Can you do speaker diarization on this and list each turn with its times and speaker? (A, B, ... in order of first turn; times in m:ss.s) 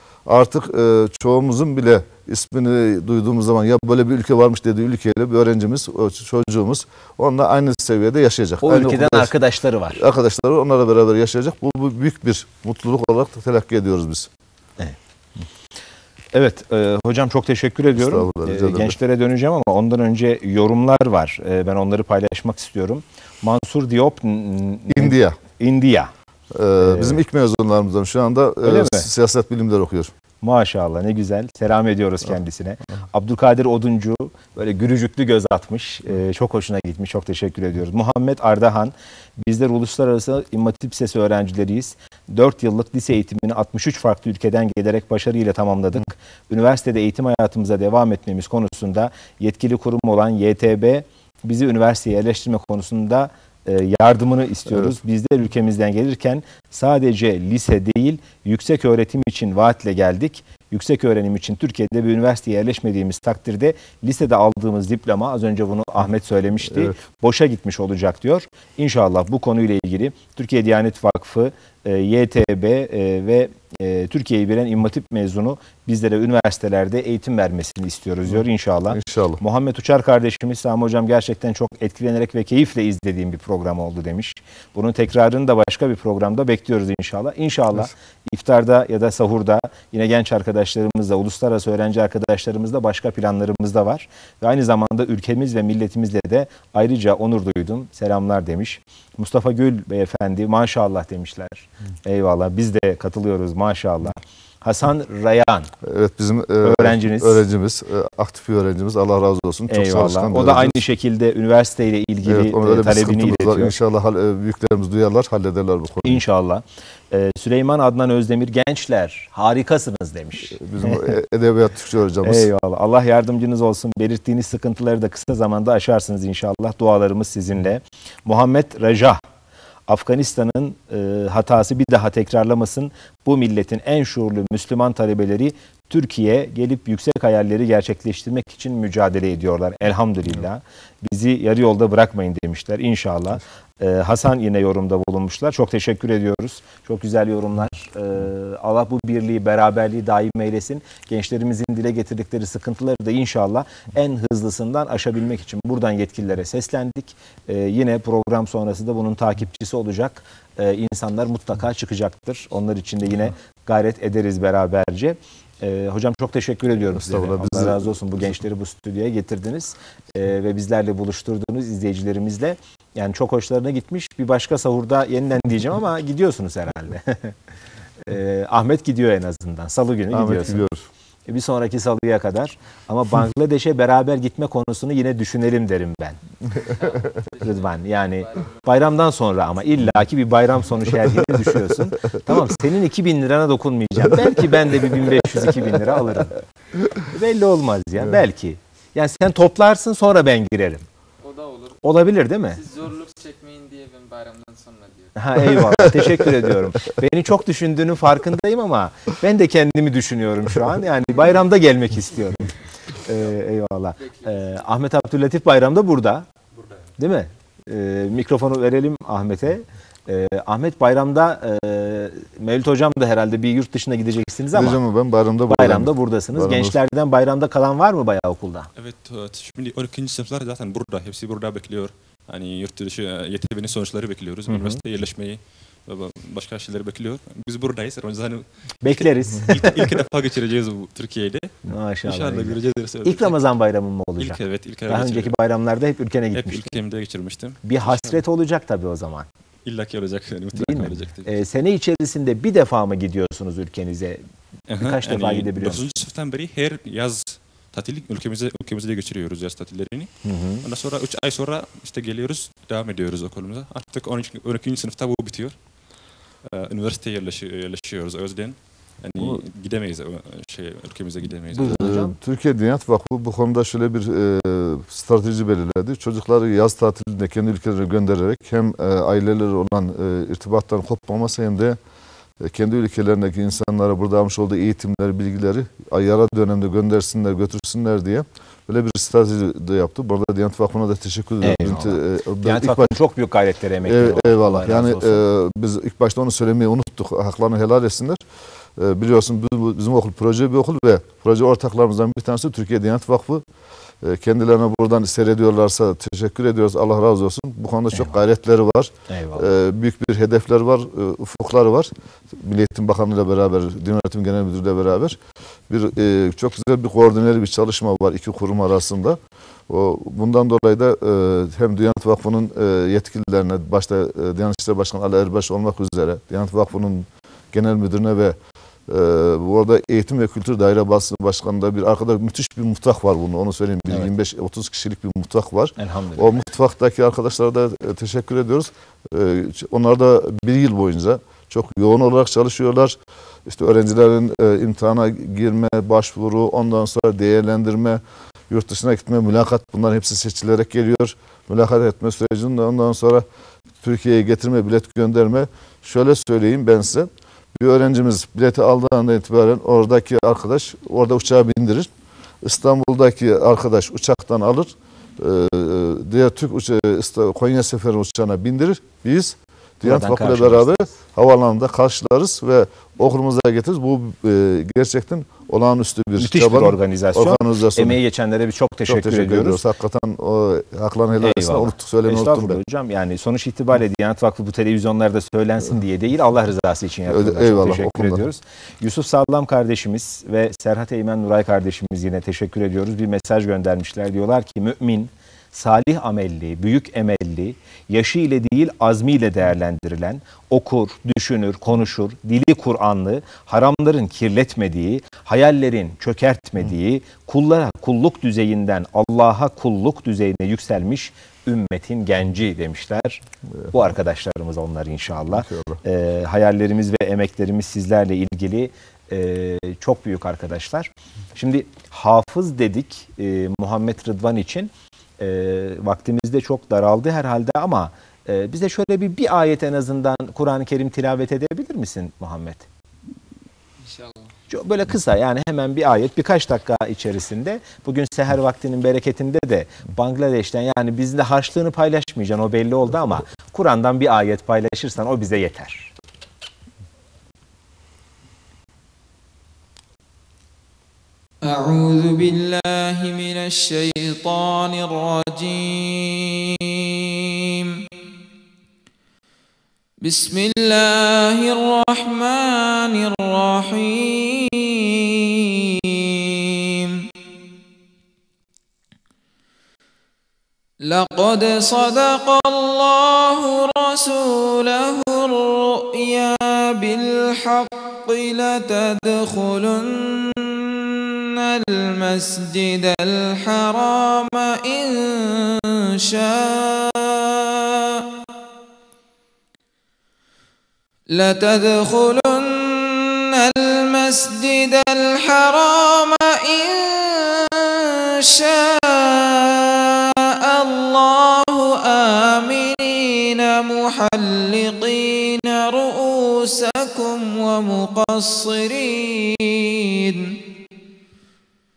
0:00.3-0:09.3 A
0:08.6-0:10.0 B
0:10.0-0:14.3 A
0:14.8-0:15.5 B
0:16.3-0:26.1 B
0:18.0-0:19.0 A
0:24.9-0:25.4 A
0:26.5-0:30.1 A
0:26.8-0:27.2 B
0:28.6-0:29.1 B
0:30.4-1:45.7 B
1:18.4-1:19.4 A
1:45.8-1:50.8 A
1:46.6-1:47.4 B
1:49.7-1:53.8 B
1:52.2-1:56.2 A
1:56.0-2:01.1 B
2:00.6-2:02.5 A
2:02.2-2:09.2 B
2:09.9-2:57.4 B
2:47.0-2:47.9 A
2:58.0-3:00.6 B
3:00.1-3:00.8 A
3:01.3-3:06.2 B
3:06.8-3:07.6 C
3:07.4-3:16.4 B
3:17.1-3:20.9 B
3:21.2-3:21.8 C
3:21.8-3:22.6 B
3:22.5-3:25.1 C
3:25.2-3:36.3 B
3:37.0-3:44.8 B
3:44.5-3:46.8 A
3:45.5-3:48.7 B
3:48.8-4:03.4 D
3:54.5-3:54.8 B
3:58.8-3:59.9 B
4:01.7-4:06.7 B
4:04.2-4:05.3 D
4:06.3-4:08.2 D
4:07.6-4:09.3 B
4:09.6-4:11.4 D
4:10.5-4:14.2 B
4:14.7-4:20.1 D
4:14.8-4:15.9 B
4:20.2-4:20.6 B
4:20.6-4:25.6 D
4:26.4-4:31.9 D
4:31.5-4:32.2 B
4:31.7-4:41.8 A
4:42.4-4:53.0 A
4:51.4-4:55.2 B
4:53.8-4:58.2 A
4:58.8-5:03.4 A
5:04.0-5:15.2 A
5:07.9-5:08.2 B
5:09.1-5:09.6 B
5:15.7-5:28.4 A
5:28.9-5:53.2 A
5:35.8-5:36.3 B
5:53.8-6:01.9 A
6:02.4-6:18.0 A
6:09.8-6:10.6 B
6:16.2-6:19.6 B
6:18.9-6:22.6 A
6:21.2-7:12.7 B
6:27.1-6:28.2 A
6:55.3-6:55.8 A
7:13.8-7:14.3 C
7:14.5-7:25.9 B
7:31.4-7:36.6 C
7:37.5-7:37.8 C
7:40.0-7:47.0 C
7:50.8-8:00.7 C
8:01.4-8:07.5 C
8:11.1-8:19.7 C
8:20.4-8:30.3 C